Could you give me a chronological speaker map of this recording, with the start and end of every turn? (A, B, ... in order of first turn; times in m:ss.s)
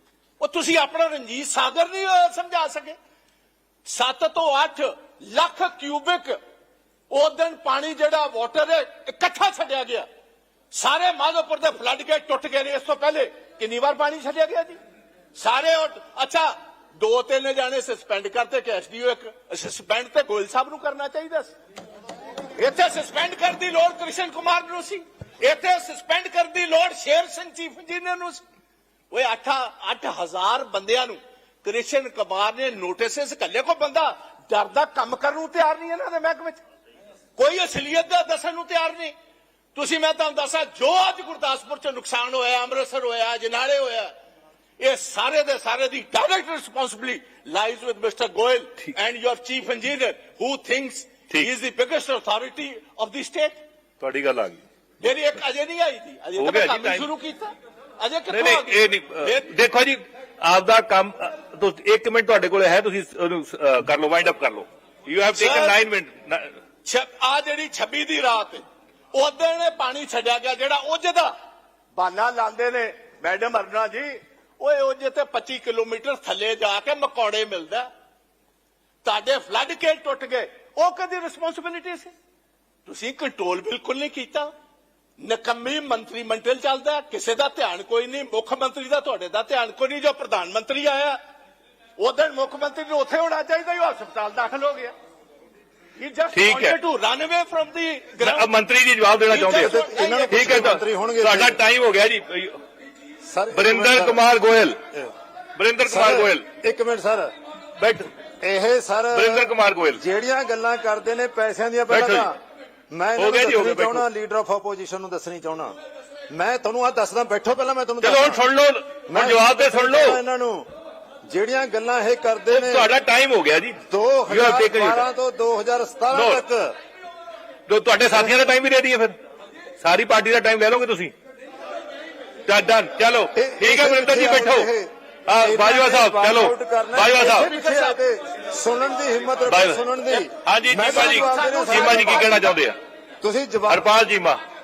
0:00.4-0:03.0 A
0:03.8-0:06.4 A
0:07.1-0:10.1 A
0:10.7-0:14.8 A
0:15.4-0:21.5 A
0:22.6-0:28.4 A
0:29.1-0:36.6 A
0:37.4-0:39.1 A
0:39.7-0:44.1 A
0:44.8-0:53.6 A
0:54.0-0:54.6 B
0:55.0-0:59.6 A
0:56.4-0:57.1 B
0:58.3-1:06.5 B
1:05.3-1:05.8 A
1:06.8-1:08.6 A
1:09.1-1:11.3 A
1:12.0-1:17.9 A
1:19.0-1:22.1 A
1:22.8-1:24.5 A
1:25.2-1:31.2 A
1:32.0-1:34.9 A
1:36.0-1:38.5 A
1:36.3-1:36.8 B
1:38.2-1:39.7 B
1:39.3-1:40.8 A
1:39.6-1:41.6 C
1:40.3-1:42.6 B
1:43.3-1:44.2 C
1:43.5-1:44.8 B
1:45.6-1:46.4 B
1:45.9-1:47.3 C
1:47.8-1:48.1 B
1:48.4-1:52.4 C
1:49.1-1:50.0 B
1:51.9-1:52.3 B
1:52.9-1:55.7 C
1:53.2-1:54.0 B
1:56.3-1:58.4 C
1:58.0-2:00.2 B
1:59.1-2:00.6 C
2:01.2-2:02.9 C
2:02.5-2:05.0 B
2:03.8-2:06.7 C
2:06.1-2:06.4 B
2:07.7-2:09.1 B
2:09.8-2:11.1 B
2:12.5-2:14.7 B
2:13.3-2:22.4 C
2:15.3-2:17.5 B
2:17.1-2:18.0 A
2:19.5-2:19.8 B
2:20.1-2:22.6 A
2:20.4-2:22.8 B
2:23.2-2:23.8 C
2:23.7-2:24.4 B